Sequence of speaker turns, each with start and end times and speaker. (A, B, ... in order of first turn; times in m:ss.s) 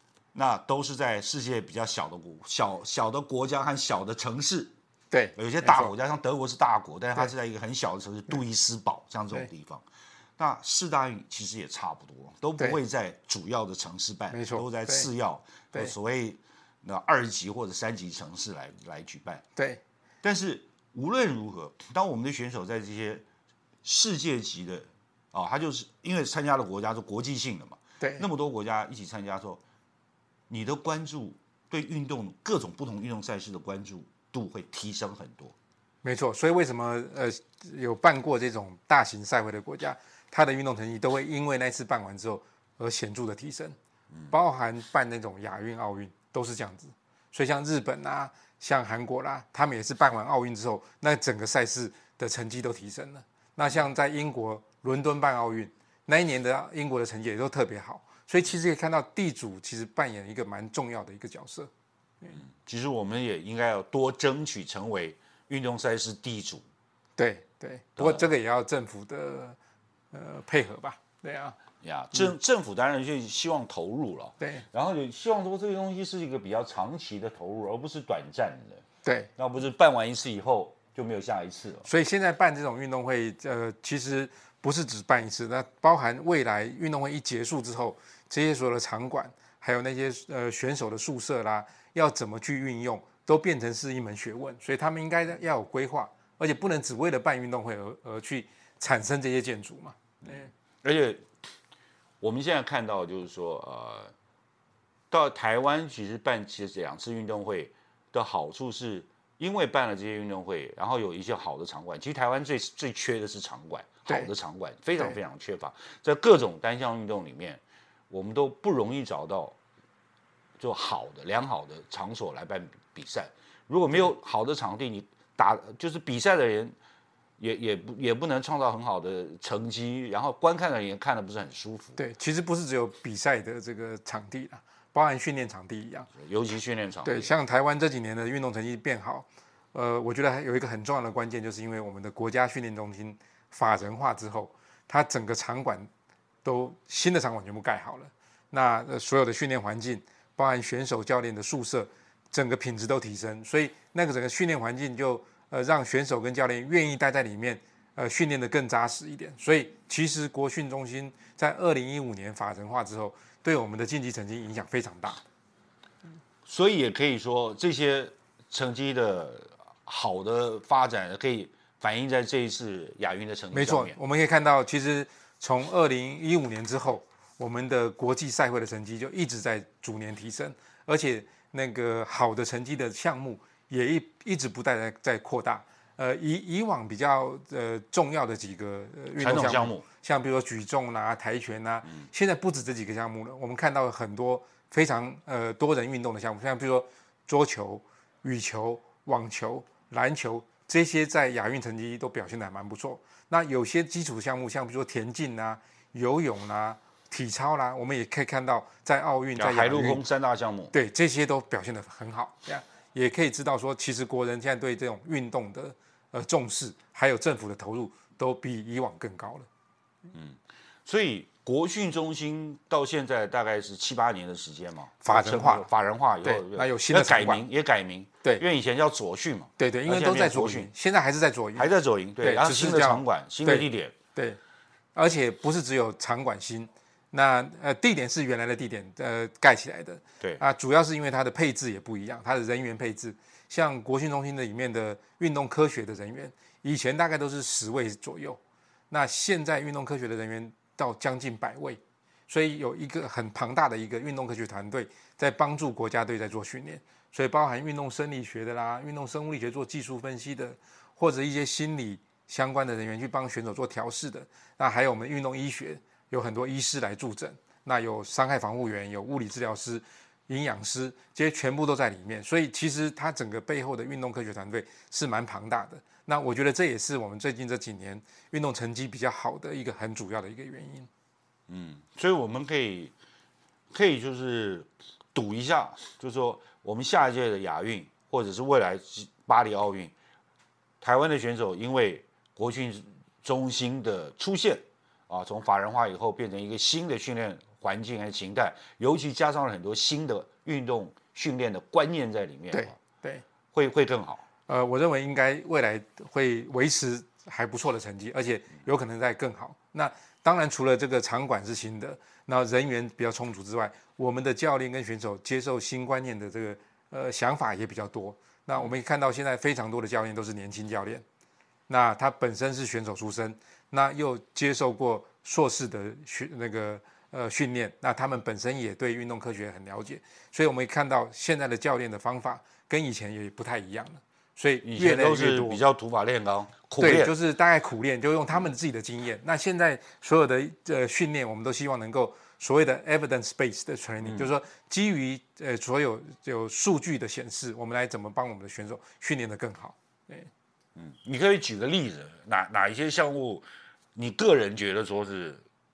0:00.3-0:04.7 A
0:05.1-0:05.9 B
0:05.4-0:09.8 A
0:10.4-0:19.4 A
0:14.3-0:15.1 B
0:19.6-0:19.8 B
0:20.2-0:23.2 A
0:23.8-0:29.6 A
0:28.0-0:28.3 B
0:30.5-0:35.5 A
0:36.0-0:43.8 B
0:44.3-1:01.7 B
1:02.4-1:06.6 A
1:07.2-1:09.6 B
1:08.0-1:08.3 A
1:10.1-1:11.6 B
1:11.8-1:18.8 A
1:14.4-1:14.6 B
1:19.0-1:19.3 B
1:19.4-1:21.9 A
1:21.8-1:40.5 B
1:40.2-1:41.2 A
1:42.2-1:44.1 A
1:45.1-1:59.6 A
2:00.6-2:06.8 A
2:07.4-2:12.0 A
2:12.0-2:16.1 B
2:16.1-2:17.3 A
2:17.0-2:25.9 B
2:26.4-2:45.2 B
2:46.4-2:54.0 A
2:53.5-3:30.0 B
3:09.2-3:09.8 A
3:29.4-3:30.7 A
3:30.7-3:39.5 B
3:40.1-3:50.7 A
3:45.0-3:45.7 B
3:46.2-3:47.4 B
3:49.6-3:51.7 B
3:51.6-3:53.9 A
3:52.2-3:54.4 B
3:54.9-4:08.4 B
4:08.9-4:40.9 B
4:41.5-4:42.9 A
4:43.7-4:49.9 A
4:50.8-5:02.8 A
5:02.5-5:03.2 B
5:03.5-5:04.2 A
5:04.5-5:21.0 B
5:21.7-5:35.6 B
5:34.6-5:37.1 A
5:36.8-5:50.3 B
5:44.0-5:44.3 A
5:50.8-5:55.4 A